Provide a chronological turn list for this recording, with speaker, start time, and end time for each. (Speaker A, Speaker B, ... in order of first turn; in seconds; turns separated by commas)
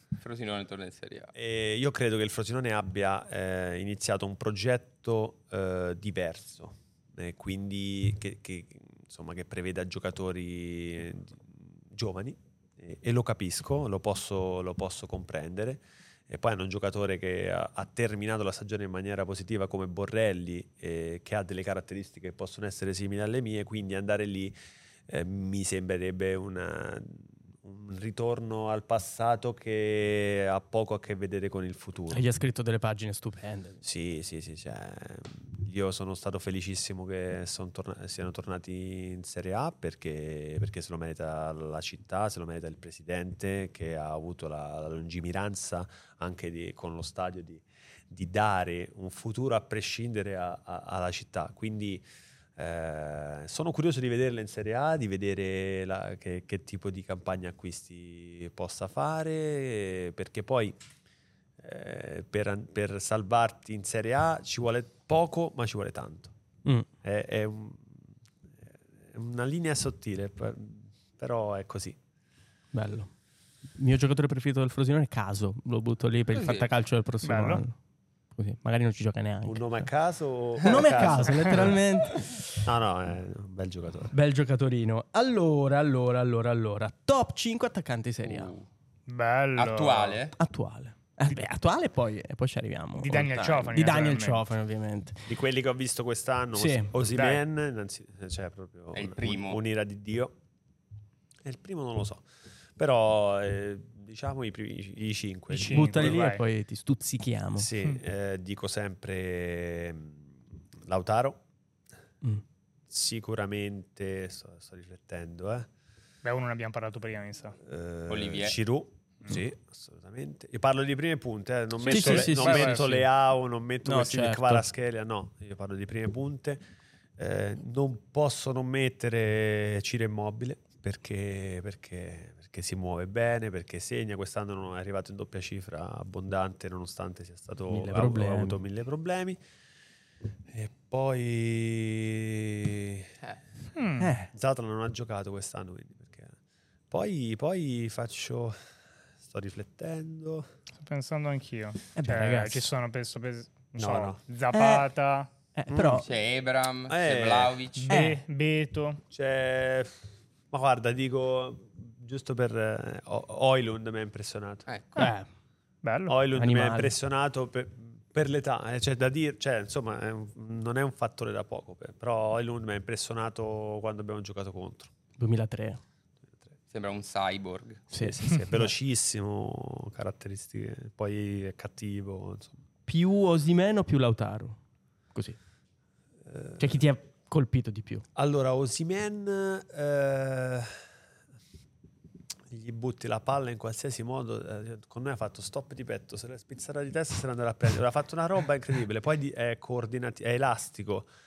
Speaker A: 0.2-1.3, Speaker B: 1.3-24.5, Speaker B: 25.1-32.2, Speaker C: 32.1-33.8, Speaker B: 33.8-52.0, Speaker B: 52.6-60.8, Speaker B: 61.6-66.3, Speaker B: 67.0-67.9, Speaker B: 69.1-72.0, Speaker C: 72.7-73.1, Speaker C: 73.7-77.7, Speaker A: 76.3-76.7, Speaker D: 77.2-77.6, Speaker C: 78.3-79.9, Speaker B: 79.4-81.8, Speaker C: 80.6-82.5, Speaker B: 82.6-84.1, Speaker C: 84.1-88.5, Speaker A: 88.2-88.7, Speaker D: 89.1-90.2, Speaker A: 89.5-90.3, Speaker C: 90.4-95.2, Speaker D: 93.0-94.4, Speaker A: 93.3-93.7, Speaker B: 95.3-100.3, Speaker C: 96.5-96.9, Speaker D: 97.0-97.4, Speaker A: 98.9-99.6, Speaker B: 101.4-102.2, Speaker B: 102.8-106.2, Speaker D: 105.5-106.4, Speaker C: 105.5-107.7, Speaker B: 107.6-110.2, Speaker B: 110.8-111.4, Speaker B: 112.9-115.7, Speaker D: 116.2-117.5, Speaker B: 117.6-126.6, Speaker A: 118.1-118.6, Speaker D: 121.8-123.0, Speaker C: 121.8-123.0, Speaker C: 123.8-124.7, Speaker B: 127.2-139.4, Speaker C: 137.7-138.6, Speaker B: 140.5-143.1, Speaker D: 143.8-144.2, Speaker C: 144.0-144.3, Speaker B: 144.3-146.3, Speaker B: 146.9-148.6, Speaker B: 149.2-150.5, Speaker D: 150.8-155.3, Speaker C: 151.9-152.7, Speaker B: 153.8-154.2, Speaker C: 154.5-154.9, Speaker C: 155.5-156.1, Speaker B: 155.7-156.1, Speaker A: 156.0-157.9, Speaker B: 156.9-157.9, Speaker D: 157.8-159.0, Speaker C: 157.9-158.2, Speaker B: 159.1-159.9, Speaker B: 160.5-164.7, Speaker A: 164.7-164.9, Speaker C: 164.9-165.3, Speaker D: 165.8-166.1, Speaker B: 166.1-174.9, Speaker C: 166.3-166.9, Speaker C: 175.2-175.8, Speaker A: 176.7-177.9, Speaker C: 177.9-178.7, Speaker B: 178.0-182.6, Speaker C: 182.9-184.6, Speaker B: 186.3-186.7, Speaker C: 186.6-188.0, Speaker B: 188.2-190.7, Speaker B: 192.5-201.1